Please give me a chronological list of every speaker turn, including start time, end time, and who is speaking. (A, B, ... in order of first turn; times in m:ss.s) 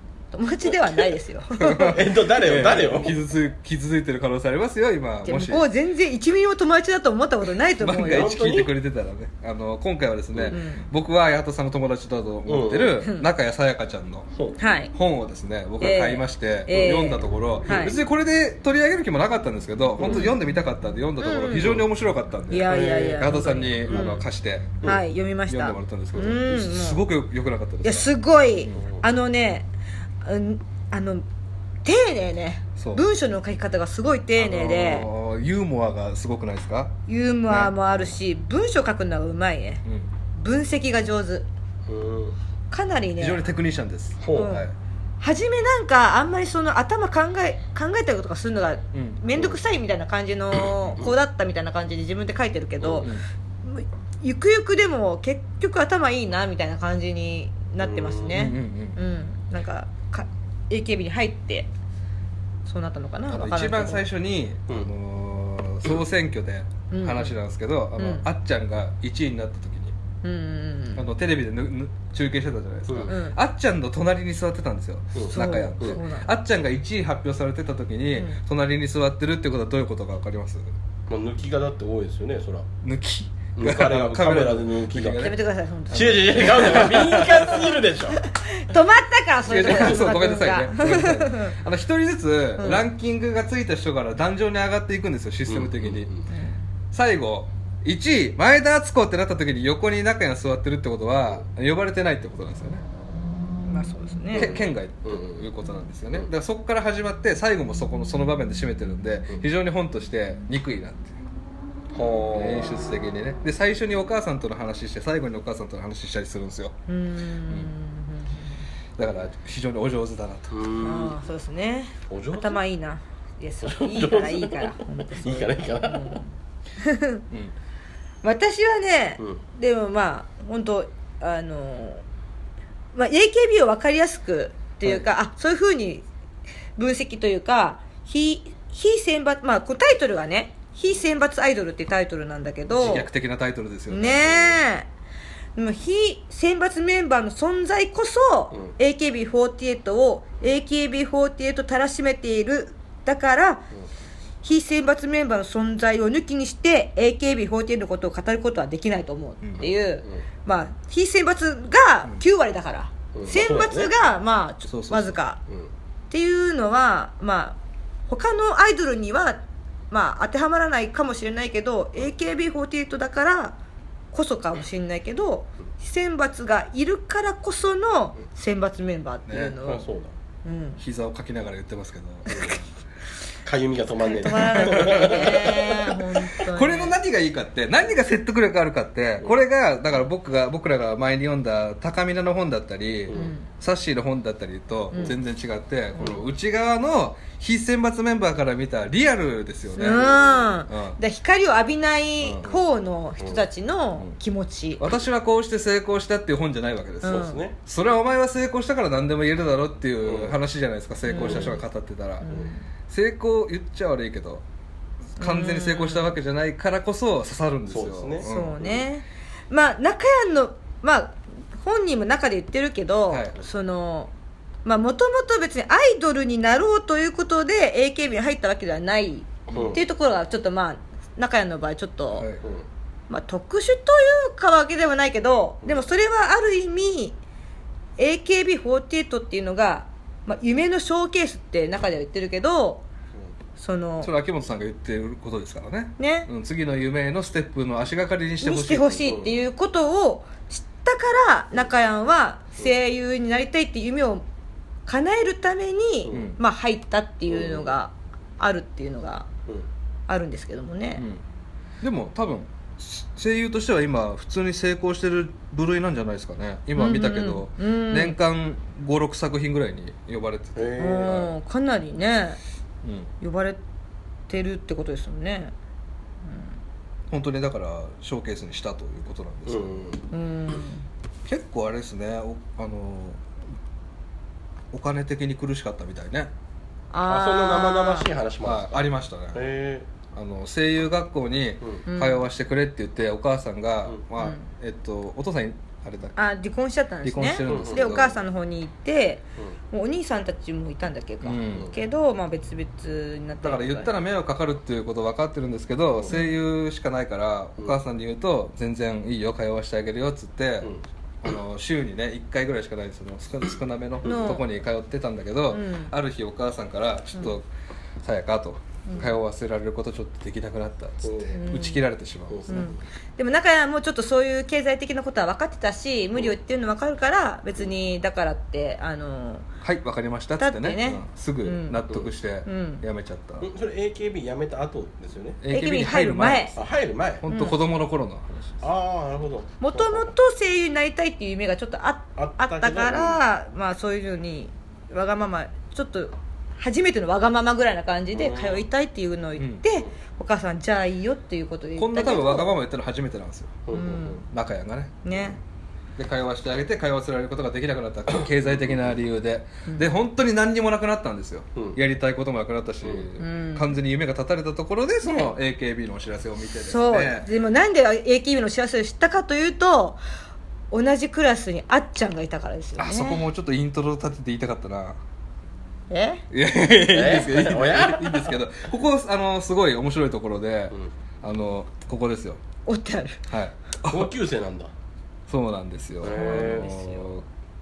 0:00.3-0:02.1 A
0:00.7-0:01.1 B
0:01.6-0:05.7 C
0:01.8-0:03.2 B
0:05.2-0:08.4 A
0:07.8-0:14.3 C
0:08.0-0:08.7 B
0:10.5-0:10.9 A
0:12.4-0:13.0 B
0:13.0-0:13.3 A
0:14.6-0:14.9 A
0:14.9-0:24.9 C
0:15.8-0:18.0 A
0:16.7-0:17.0 B
0:17.6-0:18.0 B
0:20.0-0:20.3 B
0:20.0-0:20.3 A
0:21.2-0:21.8 A
0:21.6-0:21.8 B
0:22.5-0:24.2 A
0:22.6-0:23.3 B
0:24.8-0:27.0 A
0:25.5-0:28.1 C
0:27.8-0:29.7 A
0:28.7-0:29.0 B
0:30.2-0:31.2 A
0:31.8-0:35.1 A
0:32.8-0:33.0 C
0:34.4-0:36.9 C
0:37.1-0:39.8 A
0:37.5-0:38.1 C
0:40.3-0:41.5 A
0:41.9-0:42.4 B
0:42.7-0:43.4 A
0:43.2-0:44.7 C
0:44.2-0:44.5 B
0:44.4-0:44.7 A
0:45.2-0:53.1 A
0:48.9-0:49.2 C
0:52.8-0:53.1 B
0:53.6-1:01.7 A
0:57.8-0:58.4 B
0:58.3-0:59.0 C
1:02.6-1:04.0 A
1:03.3-1:09.9 C
1:06.9-1:07.3 A
1:08.0-1:08.2 A
1:10.2-1:11.0 A
1:10.9-1:20.7 C
1:13.1-1:13.4 A
1:15.1-1:16.0 B
1:15.3-1:16.3 A
1:21.1-1:22.7 B
1:22.8-1:25.4 C
1:23.6-1:25.2 B
1:25.2-1:27.6 A
1:25.9-1:27.7 C
1:25.9-1:28.2 B
1:28.1-1:31.6 A
1:29.5-1:36.1 C
1:29.6-1:30.0 B
1:32.6-1:32.8 A
1:35.5-1:36.3 B
1:36.9-1:42.8 C
1:43.7-1:44.5 A
1:44.3-1:45.5 B
1:44.3-1:51.2 C
1:51.9-1:52.9 B
1:52.3-1:56.7 C
1:56.9-1:58.5 A
1:59.0-2:00.6 C
2:00.5-2:01.2 B
2:00.8-2:07.2 A
2:02.1-2:02.6 B
2:03.6-2:06.2 B
2:08.2-2:12.0 A
2:12.9-2:16.0 A
2:16.8-2:23.0 A
2:22.7-2:24.6 C
2:23.9-2:24.9 A
2:25.6-2:33.6 A
2:34.4-2:45.4 A
2:39.4-2:39.7 C
2:43.1-2:43.9 B
2:44.7-2:45.2 C
2:46.1-2:53.6 A
2:54.1-2:59.9 A
2:59.3-2:59.6 C
2:59.6-3:00.1 B
3:00.4-3:00.8 A
3:00.8-3:02.6 C
3:02.3-3:02.6 B
3:03.4-3:06.0 B
3:04.1-3:06.9 A
3:04.2-3:05.7 C
3:06.4-3:20.1 C
3:13.1-3:13.5 A
3:19.7-3:24.8 A
3:19.8-3:20.5 B
3:20.7-3:21.0 C
3:22.2-3:22.6 C
3:24.8-3:32.2 C
3:27.0-3:27.4 A
3:27.0-3:27.5 B
3:30.0-3:30.4 B
3:31.1-3:31.6 A
3:31.2-3:31.6 B
3:32.2-3:32.6 A
3:32.9-3:34.4 C
3:35.2-3:38.6 C
3:35.2-3:36.1 A
3:37.7-3:38.8 B
3:38.2-3:44.1 A
3:43.1-3:43.3 C
3:44.6-3:52.2 A
3:49.5-3:49.8 C
3:49.5-3:49.8 B
3:52.1-3:52.4 C
3:53.1-3:57.2 A
3:58.0-4:02.8 A
4:03.6-4:04.1 A
4:04.0-4:09.1 C
4:06.0-4:06.3 A
4:08.4-4:14.2 A
4:09.0-4:09.4 B
4:14.8-4:19.3 A
4:16.0-4:16.3 B
4:16.1-4:16.4 C
4:17.3-4:17.7 B
4:20.1-4:21.0 A
4:21.0-4:21.2 C
4:21.8-4:31.1 C
4:26.8-4:28.2 A
4:30.6-4:31.3 B
4:30.8-4:32.4 A
4:32.8-4:33.1 C
4:33.2-4:33.6 A
4:34.3-4:35.5 A
4:36.2-4:36.5 A
4:37.1-4:39.9 C
4:39.5-4:40.0 B
4:40.1-4:40.8 A
4:41.2-4:43.2 C
4:44.7-4:46.3 C
4:46.9-4:48.1 A
4:47.1-4:48.8 B
4:48.4-4:49.5 C
4:49.3-4:49.8 B
4:50.1-4:56.2 C
4:51.8-4:52.2 A
4:54.2-4:54.4 A
4:56.2-5:03.9 A
4:57.0-4:58.2 C
4:57.5-4:57.8 B
5:01.2-5:01.7 C
5:03.4-5:17.4 C
5:14.0-5:14.4 A
5:15.5-5:15.9 A
5:18.0-5:22.7 C
5:18.8-5:19.1 A
5:21.0-5:21.4 B
5:21.3-5:21.8 A
5:22.3-5:22.8 B
5:22.5-5:29.4 A
5:29.6-5:33.5 C
5:30.4-5:31.8 A
5:32.4-5:32.8 A
5:33.4-5:35.4 B
5:35.4-5:36.6 C
5:35.5-5:36.6 A
5:36.6-5:37.3 B
5:37.2-5:38.6 C
5:37.3-5:37.5 A
5:38.6-5:40.1 B
5:39.6-5:52.5 A
5:42.2-5:43.2 B
5:48.1-5:48.6 B
5:49.4-5:49.6 C
5:51.8-5:53.6 C
5:53.7-5:54.2 B
5:53.7-5:54.2 A
5:54.3-5:55.4 C
5:55.0-5:55.4 A
5:56.0-6:07.3 C
5:58.5-5:58.9 B
5:59.7-5:59.9 A
6:02.8-6:03.1 B
6:03.2-6:03.7 A
6:05.0-6:05.3 A
6:06.6-6:10.0 A
6:10.7-6:13.2 A
6:12.8-6:15.0 C
6:15.9-6:16.2 A
6:16.3-6:22.4 C
6:16.8-6:18.3 B
6:22.6-6:23.2 A
6:23.3-6:24.1 C
6:23.9-6:24.7 B
6:25.3-6:27.2 C
6:26.0-6:26.7 B
6:26.1-6:27.0 A